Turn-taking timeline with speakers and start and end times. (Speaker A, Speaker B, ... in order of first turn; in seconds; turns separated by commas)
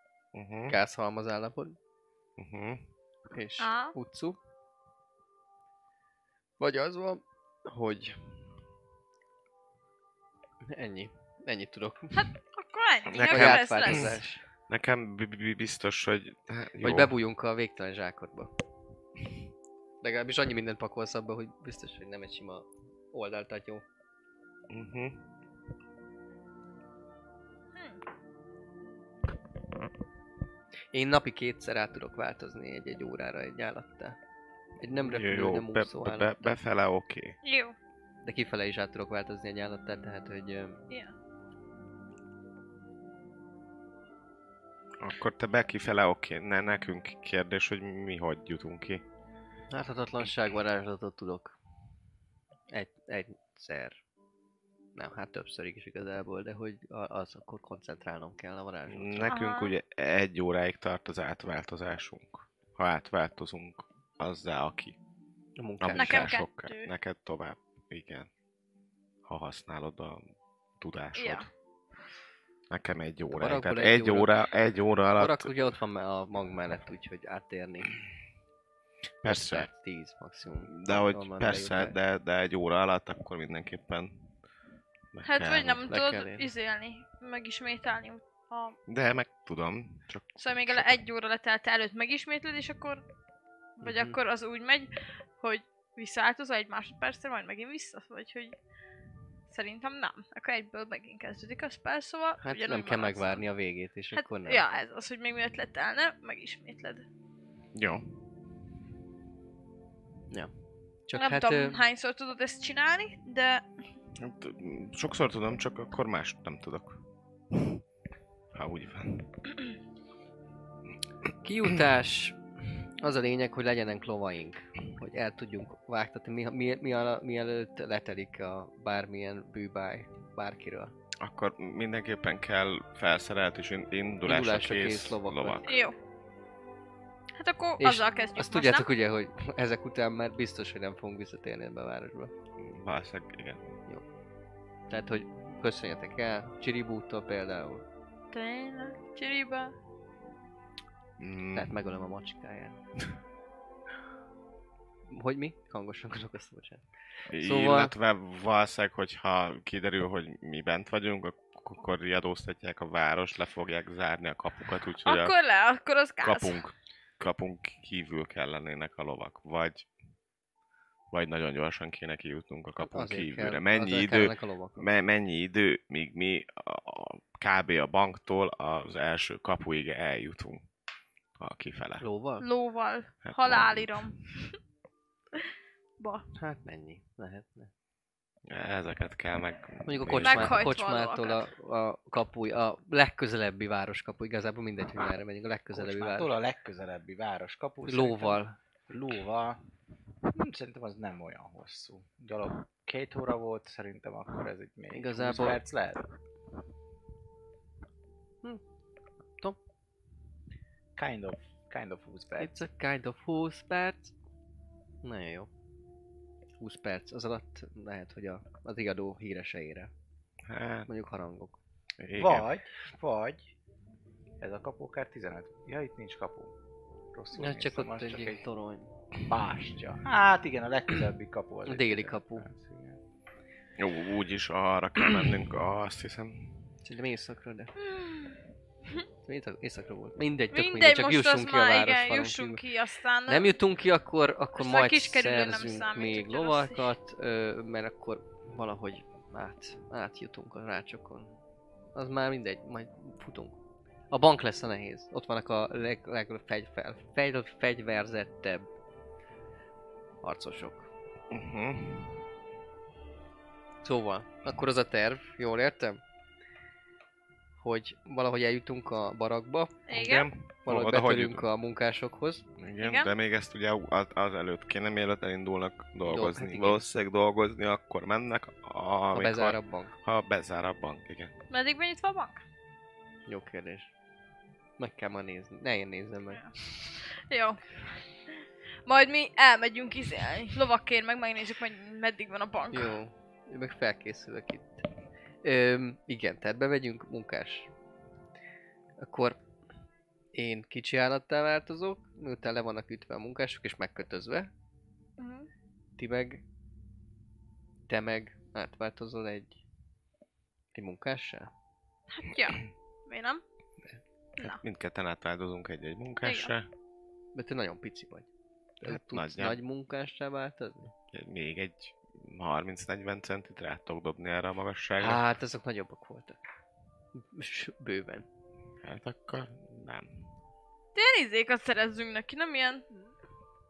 Speaker A: 0.3-0.8, Speaker B: 0.7-1.8, Speaker A: 2.4-2.8, Speaker B: 3.3-4.4, Speaker C: 3.6-3.9, Speaker B: 6.6-8.4, Speaker B: 10.6-12.2, Speaker C: 12.1-14.2, Speaker A: 13.1-14.2, Speaker B: 13.2-14.4, Speaker A: 14.7-17.1, Speaker B: 16.8-18.5, Speaker B: 20.0-23.8, Speaker A: 24.7-25.2, Speaker C: 27.7-28.0, Speaker B: 30.9-34.2, Speaker B: 34.8-36.5, Speaker A: 35.0-37.4, Speaker C: 37.4-37.8, Speaker B: 38.2-40.8, Speaker A: 45.0-49.0, Speaker B: 49.7-51.5, Speaker B: 52.7-54.0, Speaker B: 55.0-59.3, Speaker A: 58.9-65.0, Speaker C: 59.3-59.7, Speaker B: 65.6-66.3, Speaker A: 65.8-68.3, Speaker C: 66.0-66.9, Speaker A: 69.2-70.2, Speaker A: 70.8-71.5, Speaker C: 71.1-71.5, Speaker A: 72.7-75.5, Speaker B: 73.3-74.3, Speaker B: 75.2-77.9, Speaker A: 79.2-79.7, Speaker B: 79.2-82.0, Speaker A: 80.7-84.2, Speaker A: 85.1-85.9, Speaker C: 85.2-88.8, Speaker B: 85.9-86.5, Speaker A: 88.9-90.4, Speaker C: 90.4-93.0, Speaker C: 93.8-98.5, Speaker B: 93.8-94.2, Speaker C: 99.5-103.4, Speaker B: 102.4-104.6, Speaker C: 104.1-107.0, Speaker A: 107.7-108.1, Speaker B: 111.1-111.8, Speaker C: 111.2-113.6, Speaker A: 114.1-117.0, Speaker A: 118.5-119.3, Speaker B: 121.4-130.9, Speaker A: 131.2-135.7, Speaker B: 134.2-135.7, Speaker C: 135.6-135.9, Speaker C: 137.4-138.9, Speaker B: 137.8-142.3, Speaker A: 142.6-143.6, Speaker B: 144.9-147.8, Speaker C: 148.3-149.7, Speaker A: 151.2-151.7, Speaker B: 151.5-152.8, Speaker B: 155.1-156.8, Speaker A: 157.3-165.3, Speaker B: 157.4-157.9, Speaker C: 165.0-166.6, Speaker A: 166.2-169.9, Speaker A: 171.1-180.6, Speaker B: 172.8-174.8, Speaker A: 181.4-182.0, Speaker B: 182.0-182.4, Speaker C: 182.4-184.6, Speaker A: 183.2-184.1, Speaker C: 186.0-186.2, Speaker B: 186.3-187.7, Speaker A: 188.5-190.6, Speaker B: 189.9-196.3, Speaker C: 190.2-191.4, Speaker D: 195.7-199.6, Speaker B: 197.8-198.6, Speaker D: 200.3-206.0, Speaker B: 204.9-205.6, Speaker D: 210.9-212.5, Speaker B: 212.4-214.1, Speaker B: 215.0-215.5, Speaker B: 216.6-219.9, Speaker A: 220.4-220.9, Speaker B: 220.9-221.6, Speaker A: 222.0-222.5, Speaker D: 222.2-223.5, Speaker D: 224.4-226.5, Speaker D: 227.1-228.4, Speaker B: 227.3-228.9, Speaker D: 229.2-233.0, Speaker B: 231.7-232.5, Speaker A: 233.8-236.5, Speaker B: 236.8-237.7, Speaker C: 237.8-238.4, Speaker B: 239.2-242.6, Speaker C: 240.5-243.6, Speaker B: 243.3-251.3, Speaker C: 244.6-246.9, Speaker B: 251.9-253.6, Speaker B: 254.1-258.7, Speaker B: 260.2-260.9, Speaker A: 261.3-262.1, Speaker B: 263.8-266.0, Speaker B: 267.6-269.8, Speaker C: 269.9-270.3, Speaker A: 269.9-271.5, Speaker B: 270.6-272.4, Speaker A: 272.6-281.3, Speaker C: 272.8-273.1, Speaker B: 276.1-276.9, Speaker B: 279.1-279.9, Speaker C: 281.5-282.4, Speaker B: 283.3-283.9, Speaker B: 284.8-286.9, Speaker C: 287.1-287.6, Speaker C: 288.9-292.9, Speaker B: 292.7-294.8, Speaker B: 295.4-297.7, Speaker B: 299.0-299.4, Speaker B: 300.3-304.5, Speaker C: 305.2-305.5, Speaker B: 306.0-306.4, Speaker B: 307.9-309.6, Speaker B: 310.7-311.5, Speaker C: 312.1-313.4, Speaker A: 314.4-316.7, Speaker C: 316.2-316.5, Speaker B: 317.3-318.3, Speaker B: 318.8-320.9, Speaker A: 318.8-319.6, Speaker A: 321.1-325.2, Speaker B: 325.0-326.4, Speaker B: 327.1-328.2, Speaker A: 328.8-330.2, Speaker C: 330.9-332.8